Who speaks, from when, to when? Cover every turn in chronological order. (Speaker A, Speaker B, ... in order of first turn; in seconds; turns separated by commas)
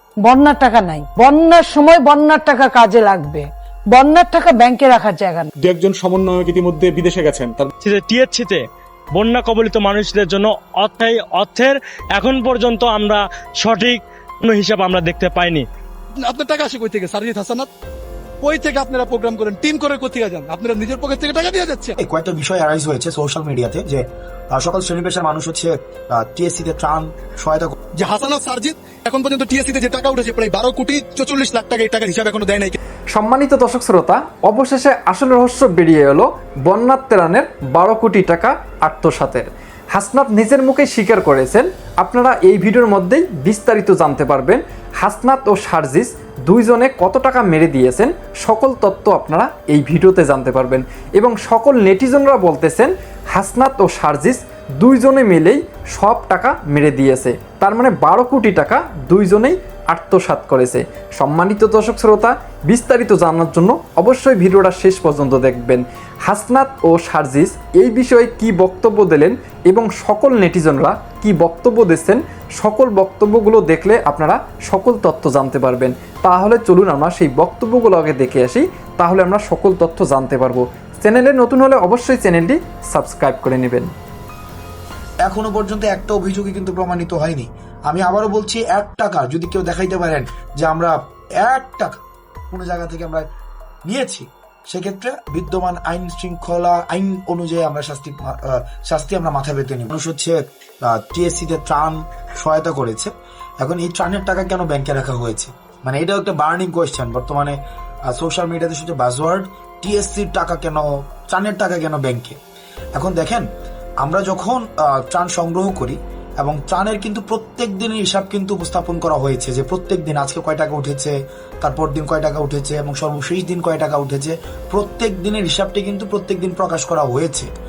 Speaker A: 0.2-5.5, Speaker B: 5.6-7.7, Speaker C: 7.8-15.7, Speaker D: 16.2-17.7, Speaker D: 18.4-21.9, Speaker E: 22.0-27.8, Speaker D: 28.0-32.7, Speaker F: 33.1-83.9, Speaker E: 85.3-92.0, Speaker E: 92.5-93.2, Speaker E: 93.9-103.1, Speaker E: 103.6-107.6, Speaker E: 108.1-112.4, Speaker E: 113.0-113.5, Speaker E: 114.0-127.5